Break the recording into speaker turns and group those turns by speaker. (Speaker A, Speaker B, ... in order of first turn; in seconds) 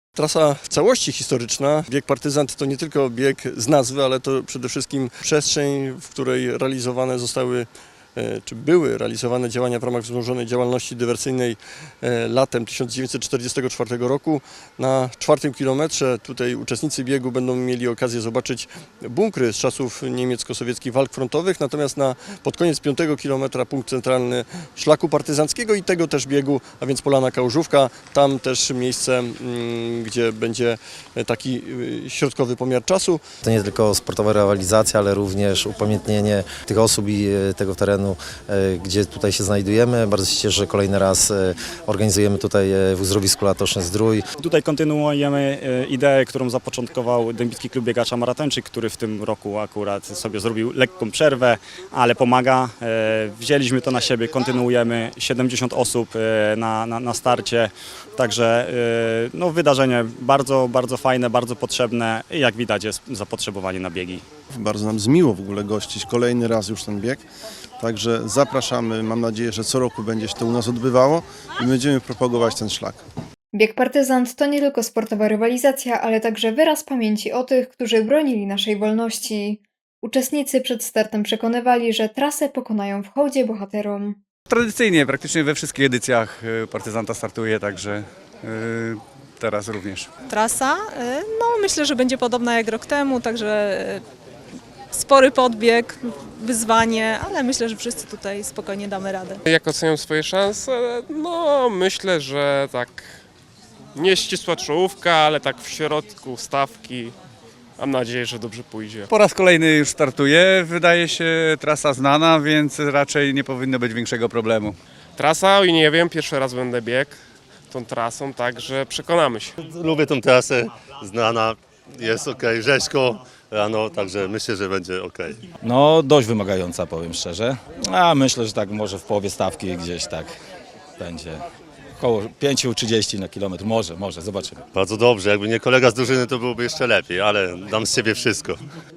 Speaker A: 0.1-33.2
Speaker B: 33.4-44.2
Speaker C: 44.4-64.2
Speaker D: 64.5-67.2, 67.8-73.0
Speaker E: 73.5-84.2
Speaker F: 84.5-88.0, 88.5-90.1, 109.1-114.7
Speaker G: 90.3-94.0, 94.9-99.4
Speaker H: 99.5-103.2, 104.0-107.2, 107.8-109.1, 115.2-117.2, 117.7-119.5
Speaker I: 119.6-125.4, 134.7-138.6
Speaker J: 125.6-130.3, 131.0-131.4, 132.0-134.6